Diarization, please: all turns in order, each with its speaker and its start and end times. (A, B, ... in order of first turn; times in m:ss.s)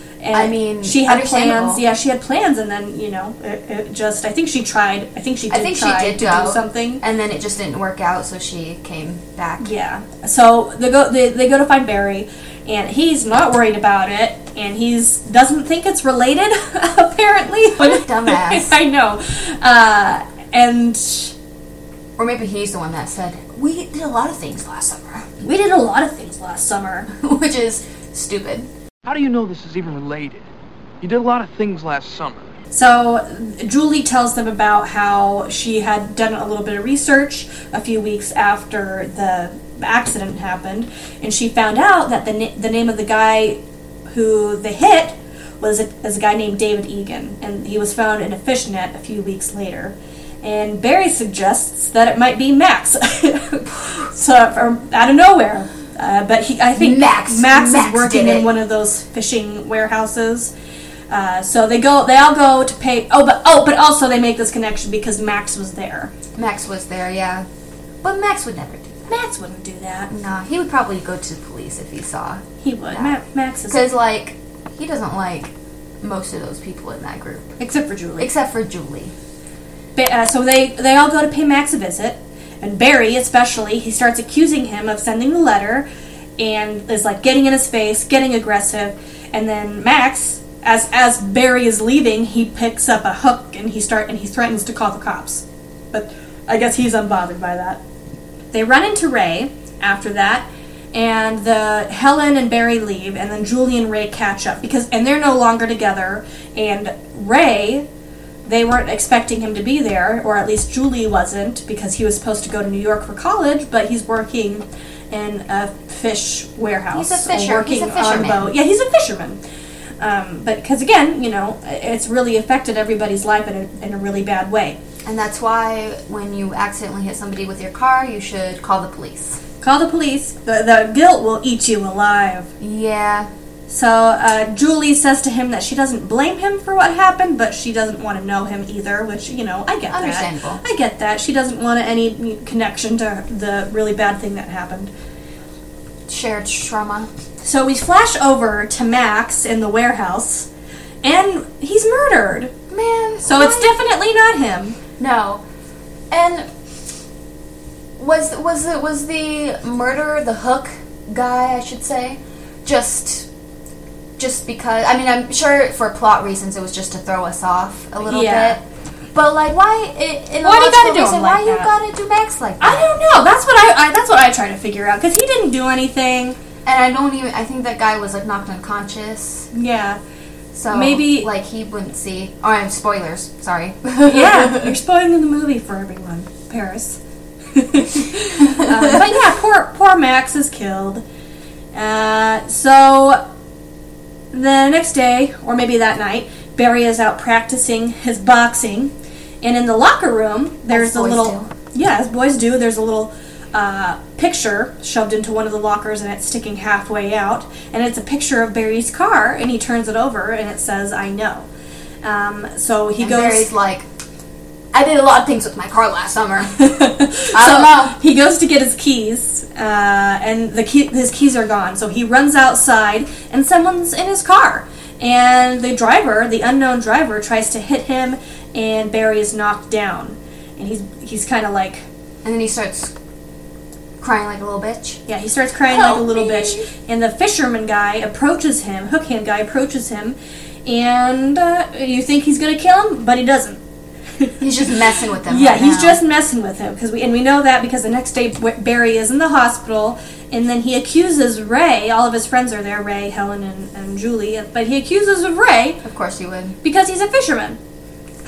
0:00.2-0:07.0 A
0:00.3-0:01.8 B
0:05.5-0:09.7 B
0:09.6-0:21.3 A
0:17.8-0:18.7 B
0:22.2-0:25.2 B
0:25.4-0:27.1 A
0:27.1-0:28.7 B
0:29.0-0:30.4 C
0:31.0-0:32.5 C
0:32.7-1:00.5 A
0:56.8-0:58.5 B
1:01.1-1:06.1 A
1:06.3-1:07.5 B
1:08.0-1:09.1 B
1:09.1-1:10.1 A
1:10.1-1:13.2 B
1:12.6-1:13.9 A
1:13.7-1:17.5 B
1:17.6-1:18.3 A
1:18.2-1:19.1 B
1:20.0-1:25.8 A
1:26.4-1:37.8 A
1:38.5-1:47.8 A
1:48.4-1:59.4 A
1:56.9-1:58.5 B
2:00.0-2:04.8 A
2:05.0-2:09.4 B
2:09.6-2:12.5 A
2:12.6-2:13.3 B
2:13.7-2:24.9 A
2:19.9-2:20.6 B
2:26.1-2:27.1 B
2:27.4-2:30.5 A
2:31.0-2:32.5 A
2:32.7-2:33.7 B
2:33.2-2:34.8 A
2:35.0-2:35.4 B
2:36.1-2:36.5 B
2:38.0-2:43.3 B
2:44.2-2:48.6 B
2:48.1-2:48.6 A
2:49.1-2:52.9 B
2:50.4-2:51.7 A
2:52.6-2:56.4 A
2:56.6-2:59.5 B
2:59.5-3:00.0 A
3:00.5-3:04.7 B
3:00.7-3:01.3 A
3:04.0-3:07.0 A
3:07.5-3:11.0 A
3:11.7-3:13.2 A
3:14.3-3:31.5 A
3:20.7-3:21.5 B
3:32.0-3:33.5 A
3:33.0-3:33.8 B
3:34.7-3:36.7 B
3:36.6-3:51.8 A
3:37.3-3:38.0 B
3:52.2-3:52.9 B
3:54.0-3:55.0 B
3:55.1-4:03.6 A
3:55.7-3:56.7 B
4:04.4-4:06.0 B
4:05.3-4:15.8 A
4:15.8-4:16.6 B
4:16.6-4:17.6 A